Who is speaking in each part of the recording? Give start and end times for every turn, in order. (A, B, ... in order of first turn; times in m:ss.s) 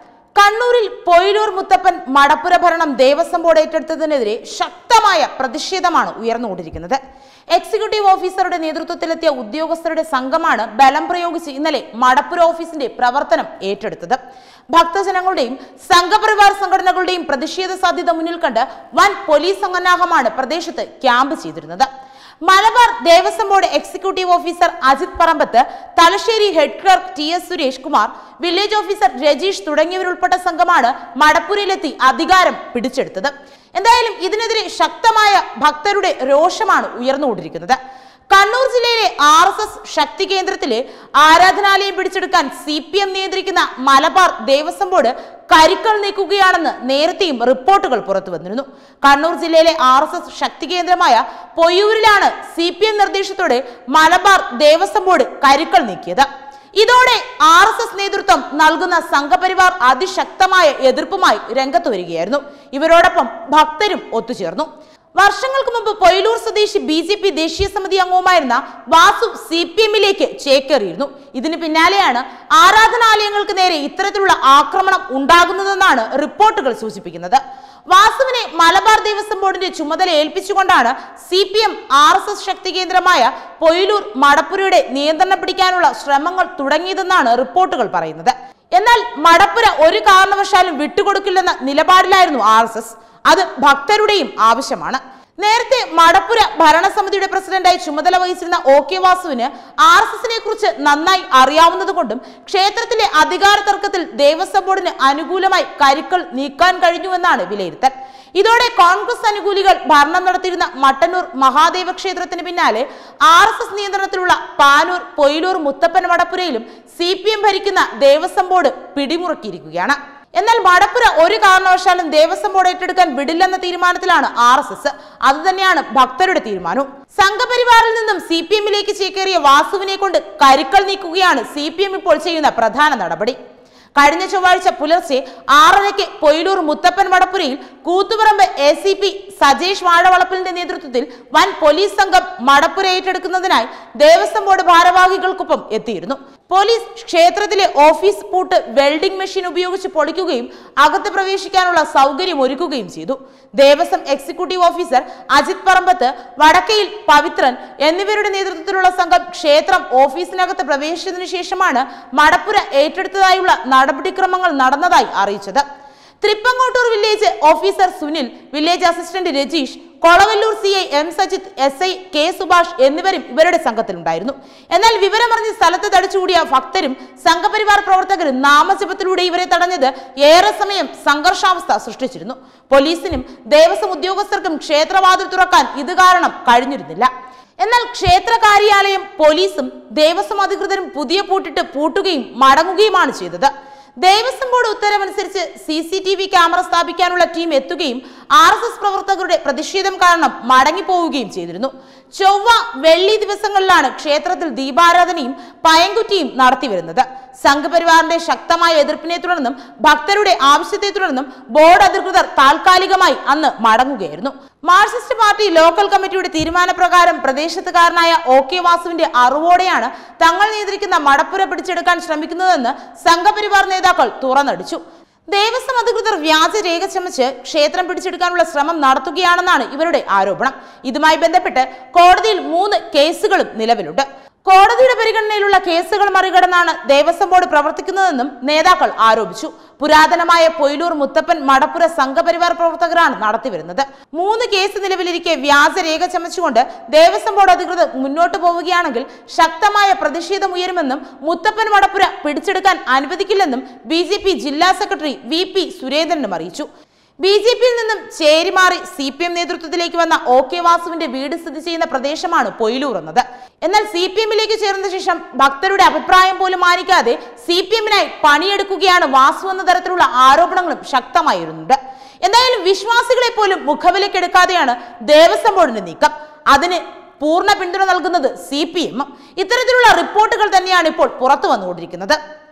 0:00.4-0:07.0 A
0:07.5-0:14.2 A
0:14.7-0:21.9 A
0:22.4-0:37.8 A
0:38.3-2:13.4 A
2:14.0-2:45.6 A
2:46.2-3:07.1 A
3:07.6-3:13.5 A
3:14.0-3:44.8 A
3:45.3-4:16.7 A
4:17.2-4:42.2 A